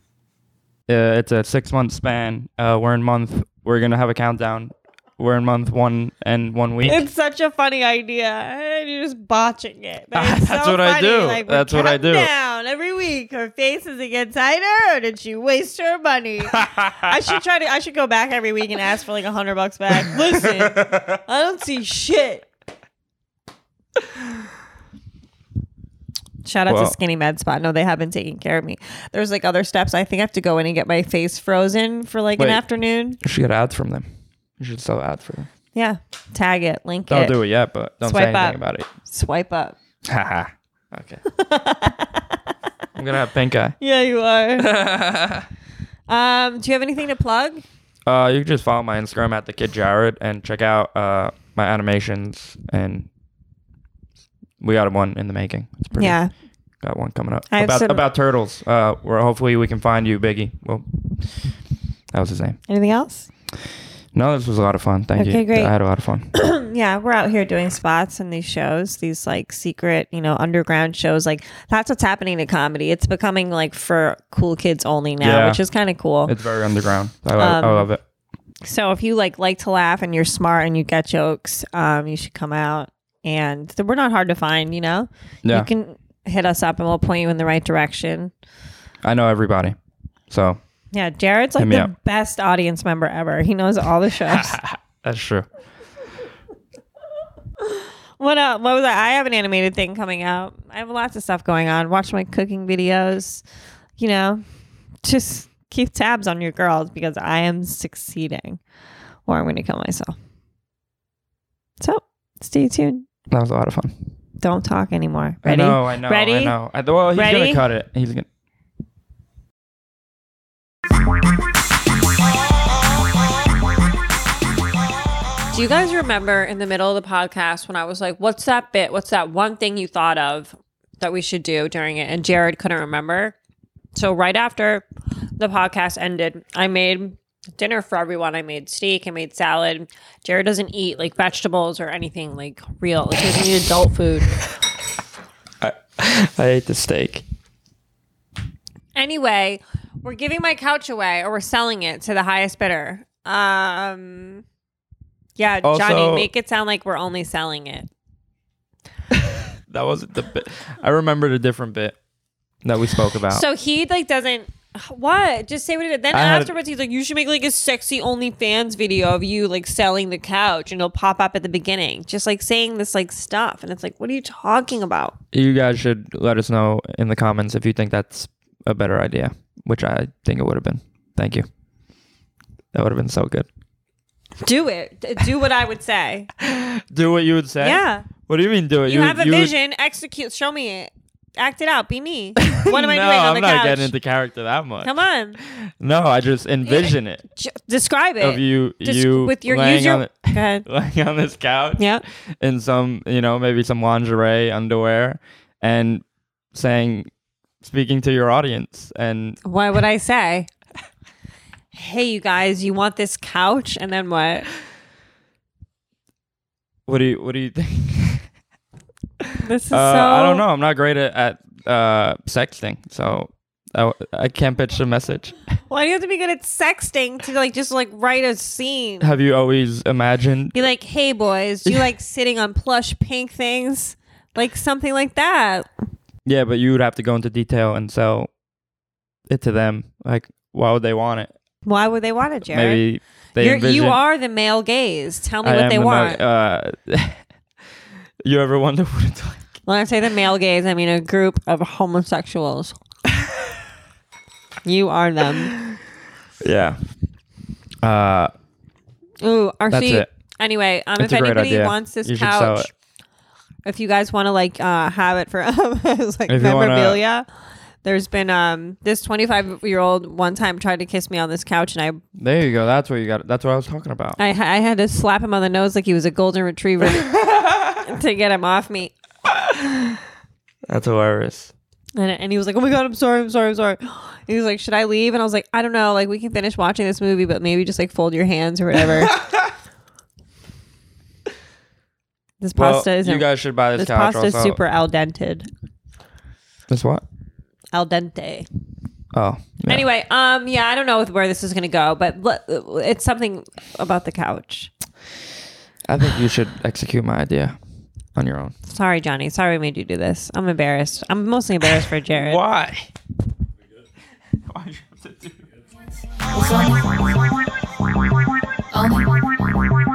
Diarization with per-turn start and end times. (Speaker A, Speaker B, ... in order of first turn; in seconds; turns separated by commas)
Speaker A: 0.9-7.0, Speaker B: 6.8-22.5, Speaker A: 10.1-12.3, Speaker A: 16.5-17.1, Speaker A: 20.4-20.7, Speaker B: 26.4-33.2, Speaker A: 26.7-26.9, Speaker A: 32.4-32.6, Speaker A: 33.2-34.0, Speaker A: 34.6-35.5, Speaker B: 35.7-37.4, Speaker A: 37.1-38.9, Speaker B: 38.0-39.8, Speaker A: 40.0-41.2, Speaker B: 41.3-42.4, Speaker A: 42.9-43.7, Speaker B: 43.8-44.7, Speaker A: 44.6-45.5, Speaker B: 46.1-47.6, Speaker A: 48.0-53.1, Speaker A: 54.6-56.2, Speaker B: 56.0-56.3, Speaker A: 56.8-60.8, Speaker B: 57.5-58.0, Speaker A: 62.1-62.6, Speaker B: 62.7-63.3, Speaker A: 64.1-66.3, Speaker B: 65.2-65.7, Speaker B: 66.3-76.3, Speaker A: 75.2-75.6, Speaker A: 76.2-78.0, Speaker B: 77.4-77.9, Speaker B: 78.6-88.3, Speaker A: 85.4-85.7, Speaker A: 89.0-89.7, Speaker A: 90.3-90.6, Speaker B: 90.9-94.6, Speaker A: 91.6-91.9, Speaker A: 94.2-95.5, Speaker B: 97.6-103.4, Speaker B: 104.0-104.4, Speaker B: 105.0-108.6, Speaker B: 109.3-110.1, Speaker B: 111.8-113.1, Speaker A: 113.3-114.0, Speaker B: 114.4-116.5, Speaker A: 115.4-118.3, Speaker B: 117.1-117.6, Speaker B: 125.5-133.3, Speaker B: 133.9-134.8, Speaker B: 135.4-144.3, Speaker A: 145.6-147.2, Speaker B: 148.9-154.4, Speaker B: 155.4-157.9, Speaker A: 155.6-156.3, Speaker A: 159.1-161.9, Speaker A: 162.6-163.4, Speaker B: 163.3-175.2, Speaker A: 166.1-166.5, Speaker A: 175.3-181.4, Speaker A: 182.7-183.5, Speaker B: 184.4-186.3, Speaker A: 186.4-189.5, Speaker B: 187.6-188.1, Speaker B: 188.8-193.9, Speaker A: 192.5-197.2, Speaker B: 194.8-195.4, Speaker B: 196.7-200.6, Speaker A: 198.2-207.1, Speaker B: 201.8-202.0, Speaker A: 207.6-209.4, Speaker B: 209.4-210.5, Speaker B: 211.7-214.5, Speaker A: 216.9-218.2, Speaker A: 219.2-225.3, Speaker B: 219.4-220.4, Speaker B: 225.7-229.1, Speaker A: 229.0-230.6, Speaker B: 230.5-235.7, Speaker A: 236.2-238.3, Speaker A: 239.3-241.3, Speaker B: 241.7-242.8, Speaker A: 242.5-244.0, Speaker B: 243.4-246.2, Speaker A: 245.4-247.2, Speaker A: 248.2-249.5, Speaker B: 249.7-252.8, Speaker B: 254.6-255.6, Speaker A: 256.4-256.8, Speaker A: 257.8-258.3, Speaker B: 259.2-262.7, Speaker A: 259.7-260.1, Speaker A: 261.0-262.7, Speaker B: 263.6-267.2, Speaker A: 266.3-267.0, Speaker B: 267.8-272.0, Speaker A: 272.1-274.2, Speaker B: 274.2-278.9, Speaker A: 276.9-277.8, Speaker A: 280.7-281.5, Speaker B: 281.9-289.2, Speaker A: 288.9-289.4, Speaker B: 292.4-295.5, Speaker A: 292.5-294.6, Speaker A: 296.7-297.0, Speaker B: 297.7-298.5, Speaker A: 299.1-299.9, Speaker B: 299.7-304.7, Speaker A: 305.9-307.6, Speaker A: 308.1-308.5, Speaker B: 308.7-312.4, Speaker A: 312.1-312.9, Speaker A: 314.4-315.5, Speaker C: 316.2-317.4, Speaker C: 318.7-319.5